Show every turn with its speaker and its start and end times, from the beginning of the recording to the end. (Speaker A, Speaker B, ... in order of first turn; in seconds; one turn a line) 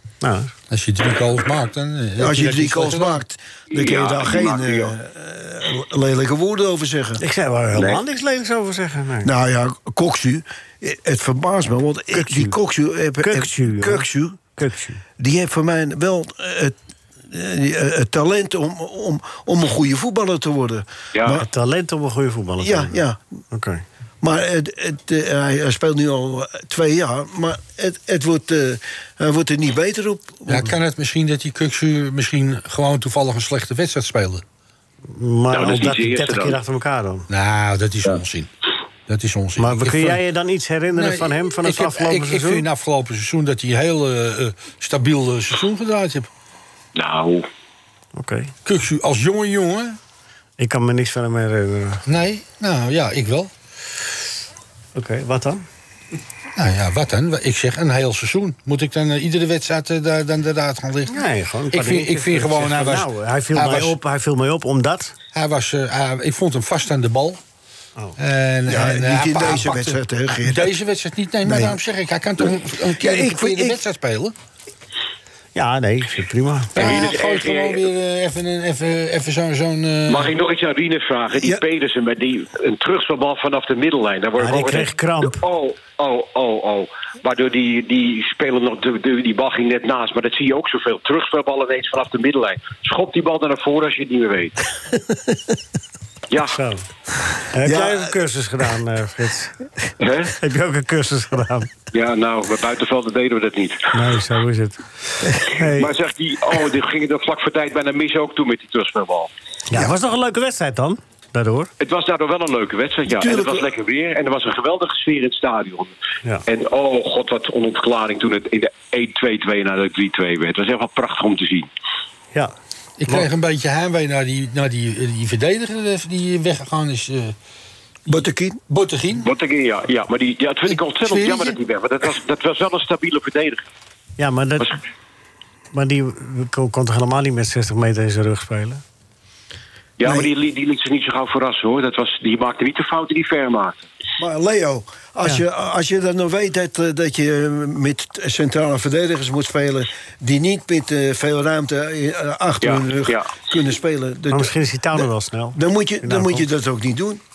Speaker A: 0.2-0.5
Speaker B: 0.7-3.2
Speaker C: 2.2-7.2
Speaker D: 3.7-4.9
Speaker A: 7.2-9.3
Speaker D: 7.7-8.0
Speaker C: 9.2-14.4
Speaker A: 12.1-12.6
Speaker A: 13.2-14.0
Speaker A: 14.6-15.0
Speaker C: 15.2-16.7
Speaker C: 17.3-21.4
Speaker D: 21.1-21.4
Speaker A: 21.4-23.0
Speaker C: 22.6-23.2
Speaker A: 23.5-23.8
Speaker C: 24.2-30.7
Speaker B: 30.5-34.4
Speaker A: 35.1-37.3
Speaker D: 35.5-36.6
Speaker B: 37.3-38.5
Speaker B: 39.1-40.2
Speaker A: 39.6-42.6
Speaker B: 40.9-46.3
Speaker D: 46.9-47.5
Speaker A: 48.1-48.5
Speaker B: 48.6-50.0
Speaker A: 50.6-52.0
Speaker B: 52.0-53.5
Speaker A: 54.9-55.6
Speaker B: 56.6-64.0
Speaker A: 61.1-65.1
Speaker B: 65.3-67.4
Speaker B: 68.2-74.3
Speaker C: 68.7-70.7
Speaker C: 71.4-71.8
Speaker C: 72.4-73.8
Speaker A: 75.5-76.9
Speaker B: 76.7-80.3
Speaker D: 76.8-77.8
Speaker D: 80.1-94.5
Speaker A: 84.4-85.4
Speaker D: 96.3-96.6
Speaker A: 96.5-96.8
Speaker A: 97.5-99.5
Speaker C: 97.6-98.1
Speaker D: 100.0-100.3
Speaker A: 100.4-101.7
Speaker D: 101.9-103.9
Speaker A: 103.9-104.8
Speaker A: 105.4-105.9
Speaker D: 105.7-109.3
Speaker A: 109.7-111.7
Speaker D: 111.8-115.9
Speaker C: 113.1-113.7
Speaker D: 116.5-121.7
Speaker B: 123.0-127.3
Speaker C: 128.1-128.6
Speaker B: 128.1-129.2
Speaker D: 129.2-133.6
Speaker B: 130.7-131.6
Speaker A: 134.2-134.7
Speaker A: 135.7-138.8
Speaker D: 140.0-143.8
Speaker C: 140.0-140.3
Speaker C: 144.2-157.2
Speaker D: 152.6-153.3
Speaker A: 154.3-156.4